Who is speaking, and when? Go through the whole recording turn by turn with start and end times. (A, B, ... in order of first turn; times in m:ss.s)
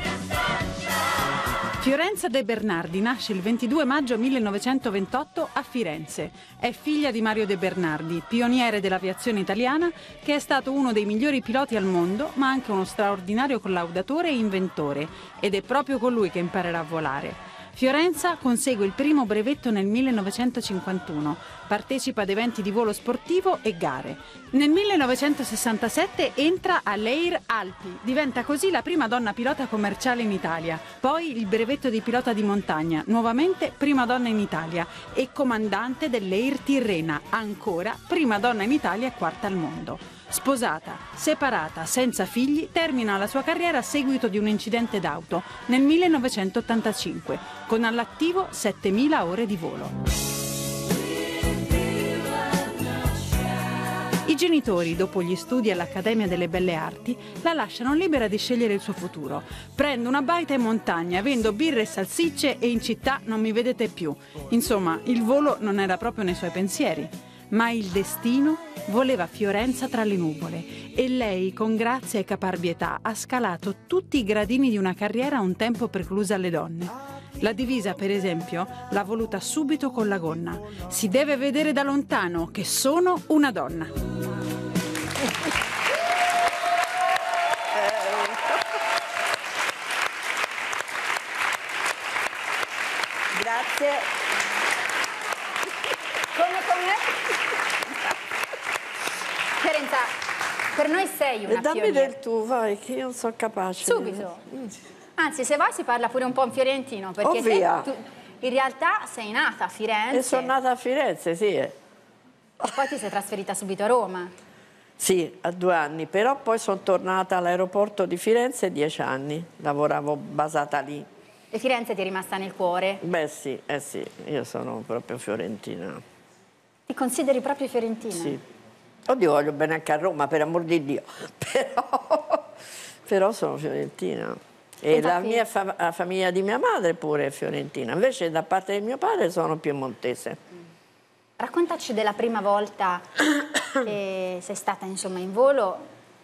0:01.8-0:50.0 A
0:54.2-1:23.9 A
1:27.7-1:28.6 B
1:33.4-1:34.1 B
1:36.3-1:37.4 C
1:39.6-1:40.1 C
1:40.7-1:42.1 C
1:41.5-1:44.7 B
1:43.8-1:44.4 C
1:45.2-1:50.5 C
1:47.2-1:47.9 B
1:50.1-1:51.7 B
1:52.7-1:54.3 C
1:55.0-2:01.1 B
2:01.5-2:03.0 C
2:03.0-2:06.0 B
2:06.9-2:08.4 C
2:08.1-2:08.4 B
2:09.1-2:12.5 B
2:13.1-2:20.4 B
2:14.9-2:15.4 C
2:21.4-2:25.8 C